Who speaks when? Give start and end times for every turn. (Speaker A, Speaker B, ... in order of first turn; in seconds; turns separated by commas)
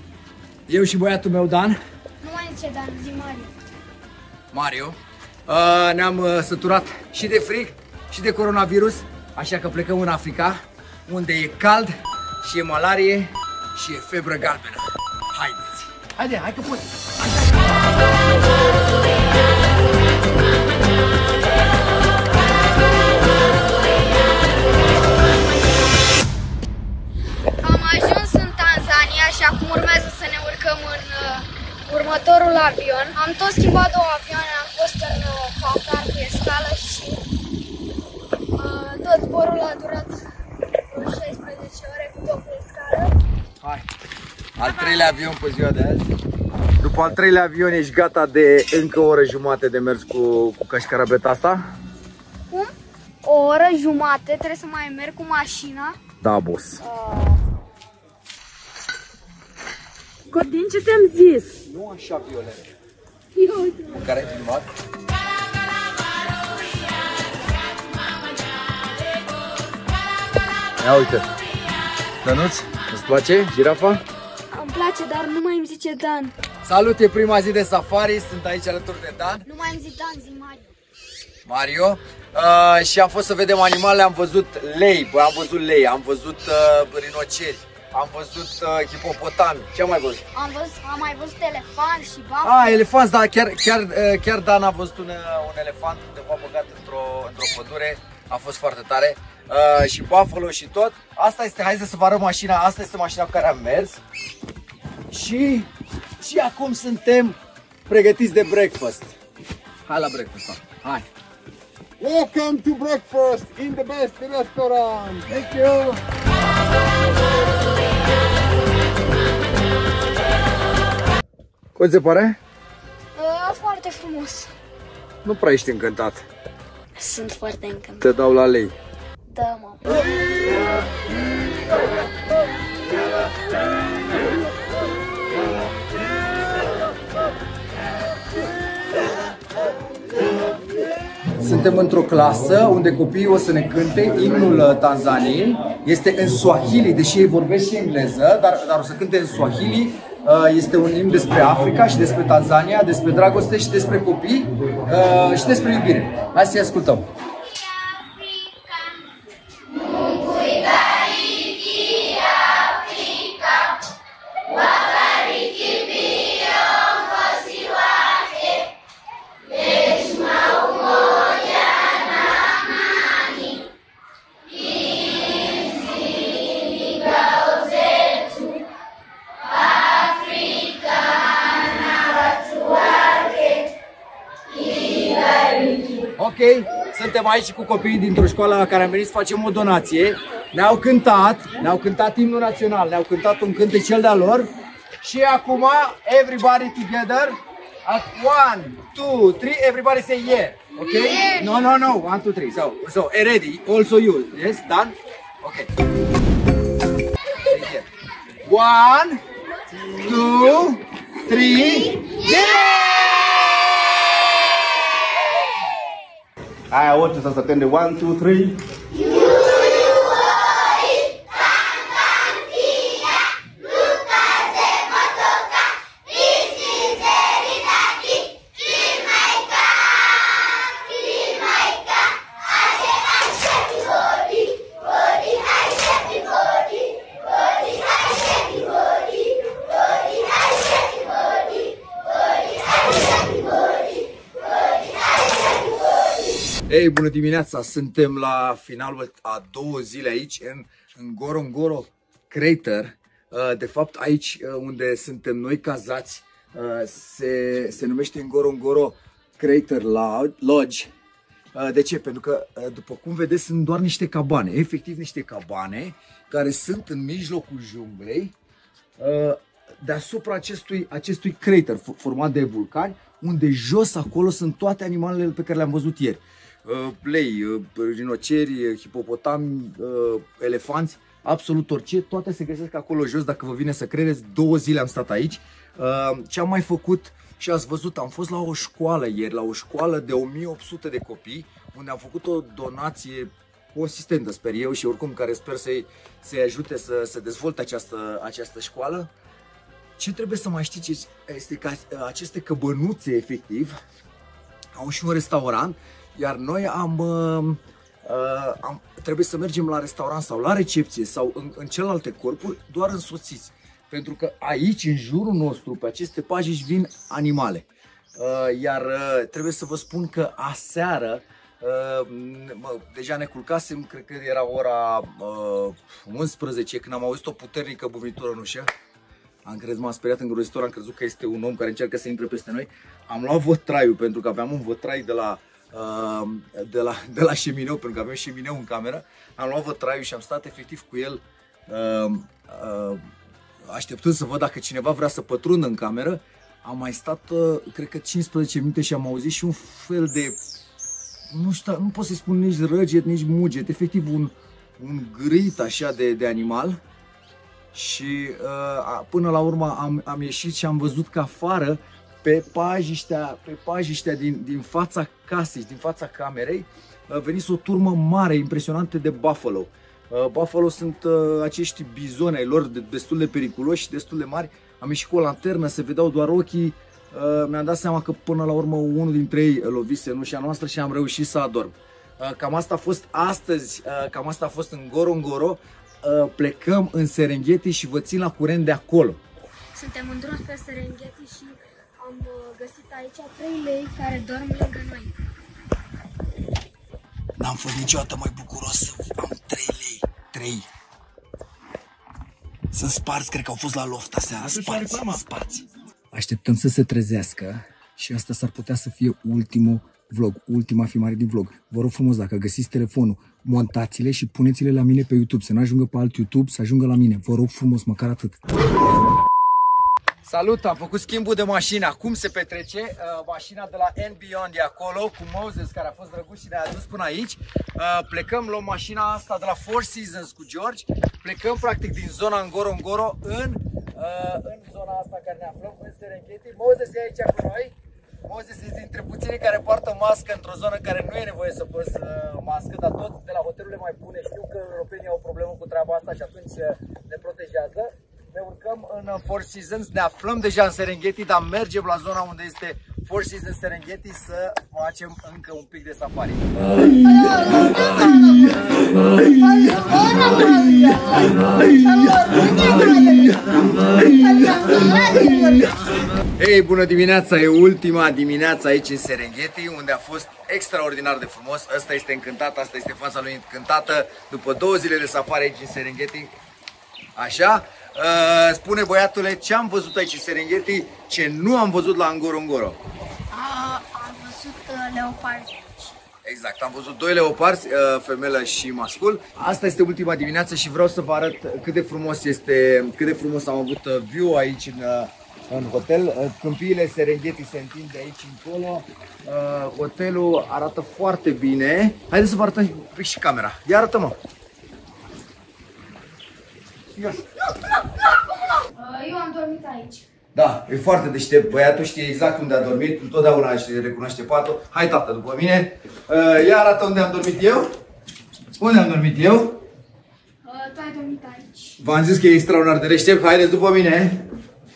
Speaker A: 0.7-1.8, Speaker B: 2.2-3.5, Speaker A: 4.5-17.5, Speaker B: 27.6-37.2, Speaker B: 38.5-43.2, Speaker A: 44.6-46.0, Speaker B: 44.6-45.2, Speaker A: 46.8-51.6, Speaker B: 53.2-56.0, Speaker A: 56.2-56.8, Speaker B: 56.8-57.4, Speaker B: 60.3-61.6, Speaker A: 61.6-62.7, Speaker B: 63.3-64.0, Speaker A: 63.9-64.7, Speaker A: 70.8-71.2, Speaker A: 72.2-74.0, Speaker B: 74.5-76.3, Speaker A: 76.6-79.5, Speaker B: 79.5-80.7, Speaker A: 81.5-90.2, Speaker B: 90.3-92.8, Speaker A: 92.4-104.0, Speaker A: 105.1-107.3, Speaker A: 107.9-109.1, Speaker A: 109.8-111.0, Speaker C: 112.0-115.2, Speaker A: 115.3-116.0, Speaker A: 121.7-122.4, Speaker B: 123.2-124.5, Speaker A: 125.2-126.2, Speaker B: 127.0-128.0, Speaker A: 128.0-128.7, Speaker B: 129.3-130.1, Speaker A: 141.4-157.1, Speaker B: 158.0-158.5, Speaker B: 170.2-171.2, Speaker B: 177.3-178.1, Speaker B: 182.4-183.3, Speaker A: 186.2-194.5, Speaker A: 195.0-205.7, Speaker B: 200.8-201.7, Speaker A: 207.4-207.9, Speaker A: 208.4-209.2, Speaker A: 209.8-212.4, Speaker B: 212.1-212.8, Speaker C: 216.7-218.6, Speaker A: 246.7-260.9, Speaker A: 261.5-268.3, Speaker A: 269.0-299.1, Speaker A: 300.0-303.7, Speaker A: 304.7-317.6, Speaker A: 318.2-328.7, Speaker A: 329.4-343.0, Speaker A: 343.7-350.4, Speaker A: 351.3-356.8, Speaker A: 357.7-389.2, Speaker B: 389.7-395.1, Speaker A: 397.4-400.6, Speaker A: 402.7-418.4, Speaker A: 420.2-456.8, Speaker B: 456.8-466.0, Speaker A: 466.4-476.3, Speaker A: 477.1-482.8, Speaker B: 483.3-485.9, Speaker A: 486.2-504.2, Speaker A: 506.9-507.2, Speaker B: 507.4-510.0, Speaker A: 510.3-517.7, Speaker A: 518.6-519.6, Speaker B: 520.4-521.8, Speaker A: 521.8-524.2